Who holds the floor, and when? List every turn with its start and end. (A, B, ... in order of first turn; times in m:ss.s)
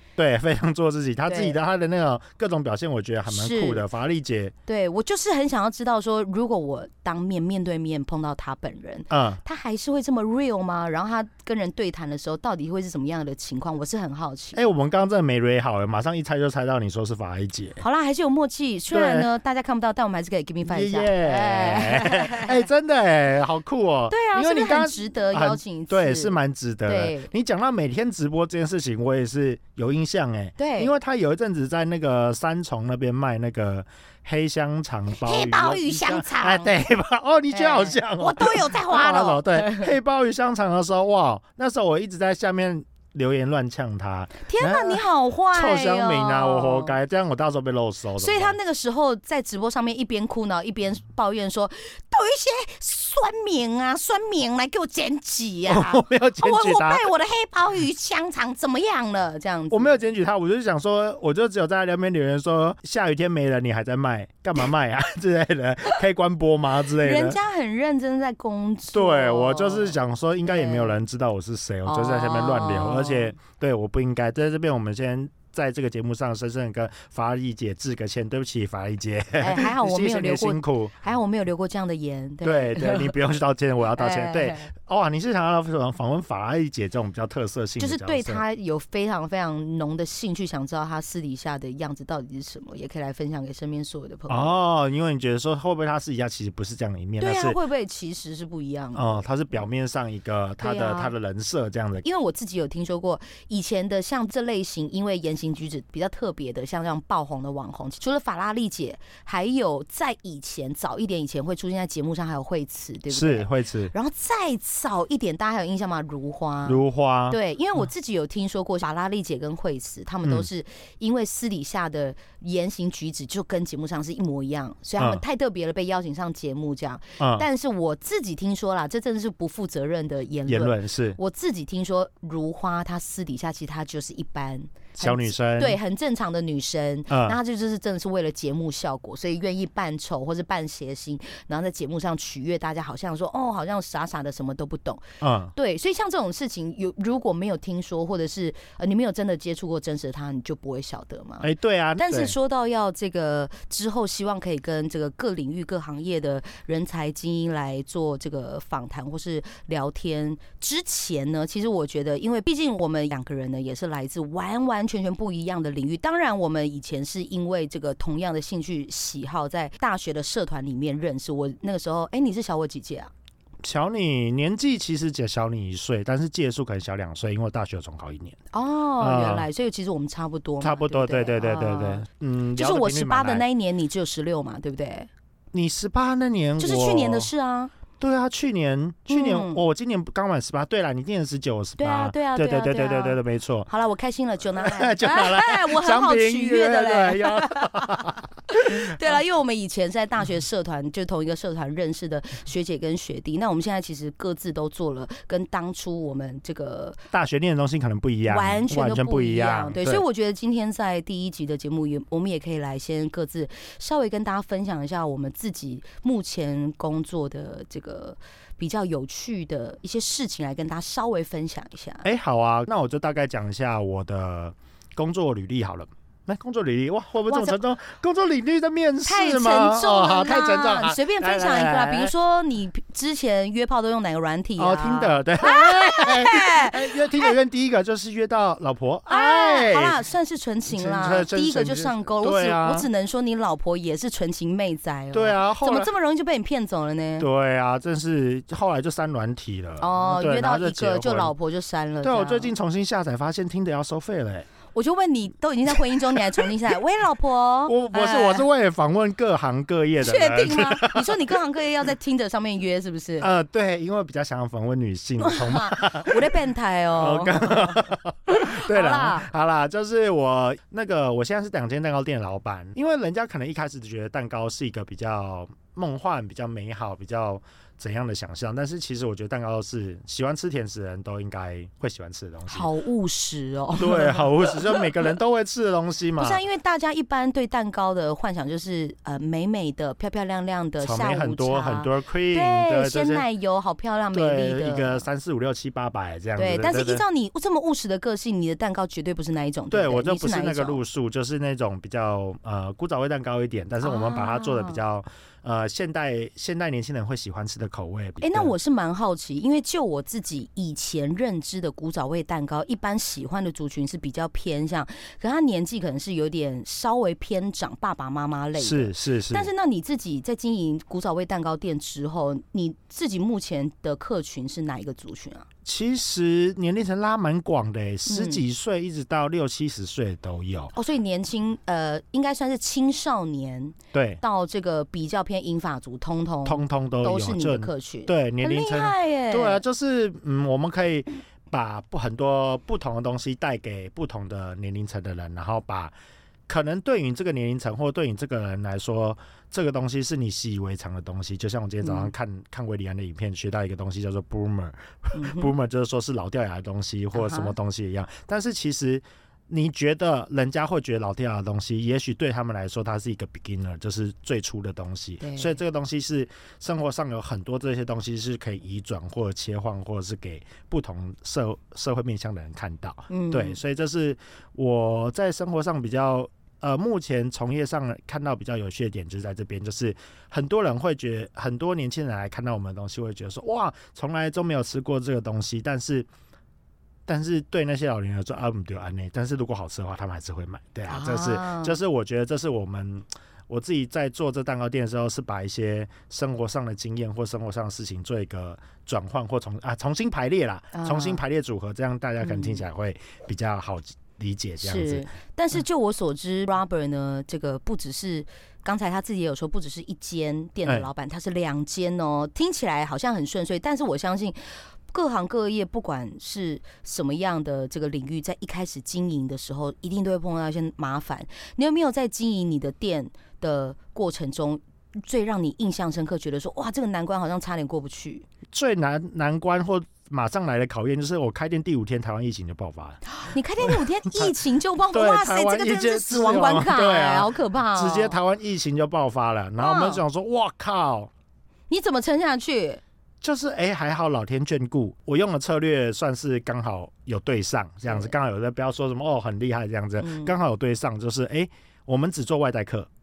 0:00.2-0:04.5 A
0:01.3-0:01.6 B
0:03.3-0:03.8 B
0:04.7-0:14.6 B
0:09.1-0:09.4 A
0:14.6-0:17.8 A
0:17.8-0:22.6 B
0:18.9-0:19.3 A
0:20.6-0:48.6 A
0:24.1-0:26.3 B
0:26.9-0:27.3 B
0:30.6-0:30.9 B
0:35.2-0:36.8 B
0:37.5-0:39.9 B
0:44.5-0:47.0 B
0:48.2-1:00.0 B
0:55.7-0:57.0 A
0:59.7-1:07.4 A
1:07.0-1:11.0 B
1:08.9-1:21.0 A
1:11.9-1:13.3 B
1:19.4-1:23.2 B
1:22.4-1:28.4 A
1:24.0-1:24.7 B
1:27.8-1:34.6 B
1:34.3-1:37.6 A
1:37.2-1:39.2 B
1:38.9-1:42.0 A
1:40.6-1:41.1 B
1:42.0-2:53.1 B
1:53.1-1:53.9 A
1:56.6-1:57.4 A
2:05.0-2:05.2 A
2:07.2-2:07.5 A
2:10.5-2:11.2 A
2:15.0-2:15.8 A
2:17.1-2:17.4 A
2:25.2-2:25.5 A
2:31.4-2:32.4 A
2:53.6-2:58.4 A
2:58.5-3:05.1 B
2:59.0-2:59.5 A
3:00.6-3:03.4 A
3:05.5-3:07.3 A
3:06.6-3:07.7 B
3:08.0-3:13.7 A
3:09.1-3:09.6 B
3:11.8-3:27.0 B
3:14.6-3:18.9 A
3:27.1-3:30.0 A
3:28.3-3:42.0 B
3:42.0-3:52.1 A
3:47.3-3:47.6 B
3:49.0-3:57.3 B
3:54.6-4:00.0 A
3:59.1-4:07.3 B
4:00.7-4:02.9 A
4:05.1-4:05.9 A
4:07.2-4:11.3 A
4:09.8-4:12.5 B
4:12.0-4:14.5 A
4:14.7-4:18.5 B
4:17.7-4:21.3 A
4:20.0-4:23.3 B
4:23.2-4:26.4 A
4:25.2-4:29.3 B
4:27.0-4:42.7 A
4:42.5-4:44.8 B
4:43.8-4:46.4 A
4:46.2-4:55.1 B
4:50.8-4:53.2 A
4:54.1-4:57.0 A
4:56.4-5:00.8 B
4:59.7-5:08.5 A
5:03.8-5:04.8 B
5:08.2-5:25.5 B
5:18.6-5:19.5 A
5:25.6-5:30.7 A
5:28.1-5:28.4 B
5:30.7-5:39.6 B
5:33.9-5:34.2 A
5:36.4-5:45.9 A
5:46.5-6:26.1 A
5:51.8-5:52.1 B
5:55.2-5:55.5 B
5:57.1-5:57.6 B
6:05.2-6:05.6 B
6:13.1-6:13.6 B
6:27.1-6:45.1 A
6:30.9-6:31.8 B
6:40.7-6:41.2 B
6:42.2-6:42.7 B
6:44.6-7:08.3 B
7:08.5-7:13.0 A
7:13.2-7:18.2 B
7:13.6-7:14.3 A
7:14.9-7:21.1 A
7:19.6-7:20.0 B
7:21.7-7:22.8 B
7:23.2-7:32.9 A
7:27.9-7:28.1 B
7:30.0-7:30.3 B